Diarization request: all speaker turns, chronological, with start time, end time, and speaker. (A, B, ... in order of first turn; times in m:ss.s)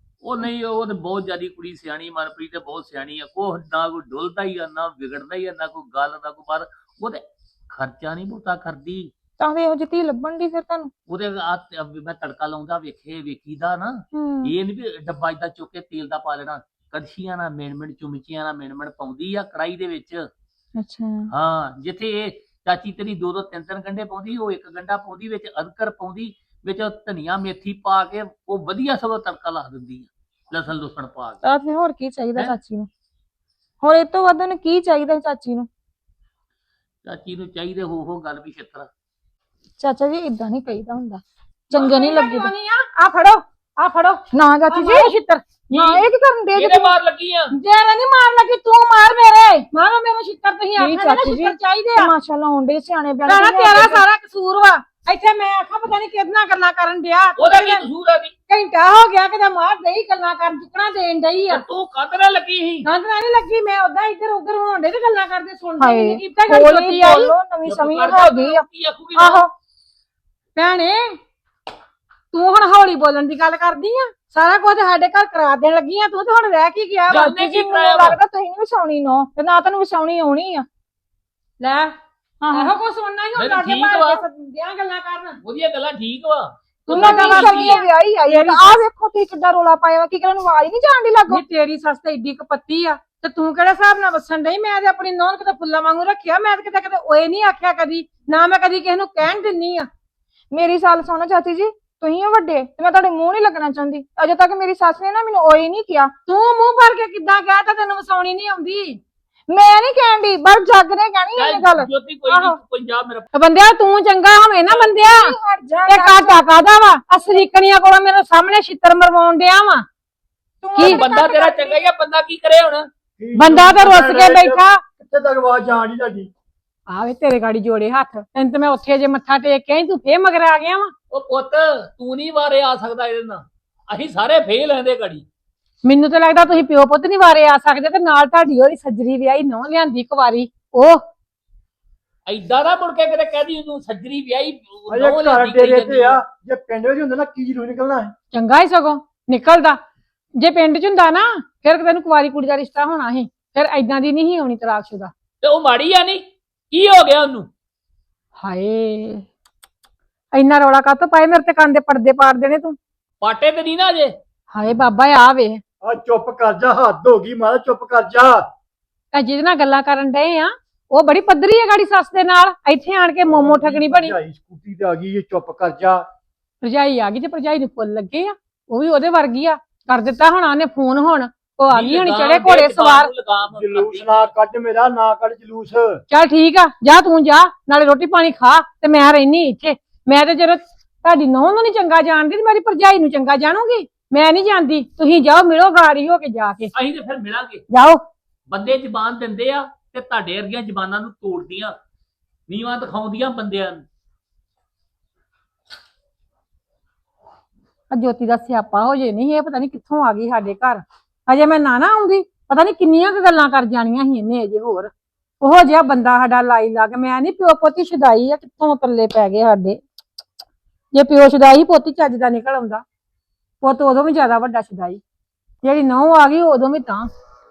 0:00.2-0:09.1 A
0:09.4-0:10.9 B
0:11.1-0:20.2 A
0:14.1-0:14.5 B
0:20.8-0:21.3 B
0:21.3-0:31.4 A
0:31.4-0:32.9 B
0:33.8-0:35.7 B
0:37.0-0:38.9 A
0:39.8-0:42.5 B
0:41.7-0:45.9 C
0:44.3-0:45.1 B
0:45.7-0:46.9 B
0:46.5-0:47.5 A
0:47.5-0:52.1 C
0:50.8-0:54.0 B
0:53.2-0:57.9 C
0:57.4-0:58.3 A
0:58.5-1:01.6 C
1:01.5-1:02.9 A
1:02.8-1:07.3 C
1:05.8-1:08.6 B
1:07.6-1:09.4 A
1:09.2-1:09.5 B
1:10.6-1:11.2 C
1:12.3-1:17.6 C
1:17.1-1:18.2 A
1:17.1-1:20.6 B
1:21.6-1:21.9 C
1:22.4-1:22.7 B
1:22.5-1:25.4 C
1:23.4-1:24.2 A
1:25.4-1:27.8 A
1:26.9-1:28.8 C
1:26.9-1:31.4 B
1:31.3-1:39.9 C
1:40.5-1:46.1 B
1:46.3-1:49.0 C
1:49.5-1:52.6 B
1:51.4-1:53.3 A
1:53.3-1:55.3 C
1:54.7-1:56.8 B
1:55.9-1:59.8 C
2:00.6-2:01.8 B
2:00.8-2:02.9 A
2:03.2-2:06.3 D
2:03.3-2:04.8 C
2:06.9-2:10.9 C
2:11.1-2:15.2 A
2:15.8-2:21.0 C
2:22.2-2:26.2 A
2:24.9-2:28.1 D
2:28.3-2:29.8 C
2:30.4-2:35.1 C
2:35.4-2:37.5 A
2:38.4-2:39.3 C
2:40.3-2:42.8 C
2:43.2-2:44.2 A
2:44.5-2:45.6 C
2:45.8-2:48.4 D
2:49.1-2:54.2 C
2:53.2-2:56.0 D
2:56.6-3:03.1 C
3:01.7-3:04.3 A
3:03.4-3:06.0 D
3:06.1-3:16.7 C
3:16.8-3:17.6 A
3:17.7-3:18.0 C
3:18.5-3:21.7 A
3:22.5-3:23.8 A
3:27.9-3:39.8 C
3:40.9-3:42.8 C
3:43.6-3:45.0 C
3:45.6-3:47.1 C